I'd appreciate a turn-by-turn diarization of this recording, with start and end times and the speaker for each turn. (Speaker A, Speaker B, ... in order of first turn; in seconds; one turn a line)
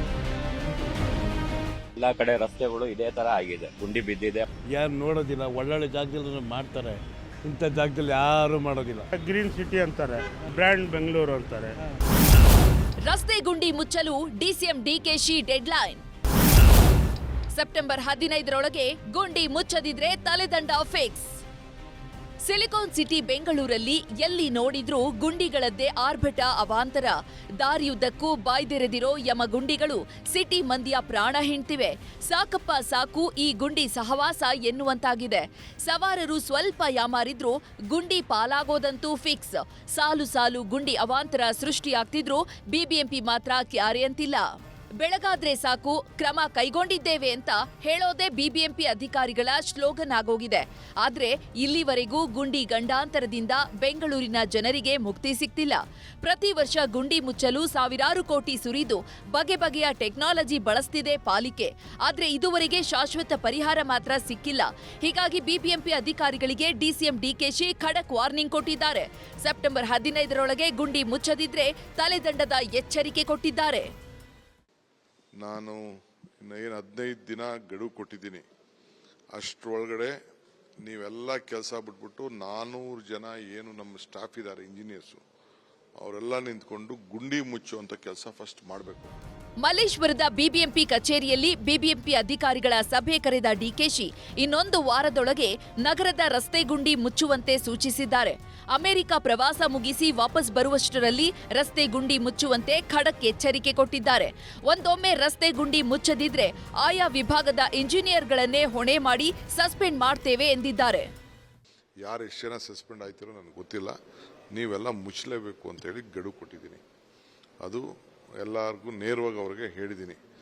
Speaker A: 2.0-4.5
Speaker B: 4.7-9.1
Speaker C: 9.2-11.7
Speaker D: 13.1-16.0
Speaker D: 17.5-21.3
Speaker D: 22.4-44.5
Speaker D: 45.0-73.9
Speaker E: 75.4-75.8
Speaker E: 76.4-78.4
Speaker E: 79.3-80.1
Speaker E: 80.8-85.2
Speaker E: 86.0-89.1
Speaker D: 89.6-111.1
Speaker E: 112.0-113.9
Speaker E: 114.5-116.8
Speaker E: 118.4-120.2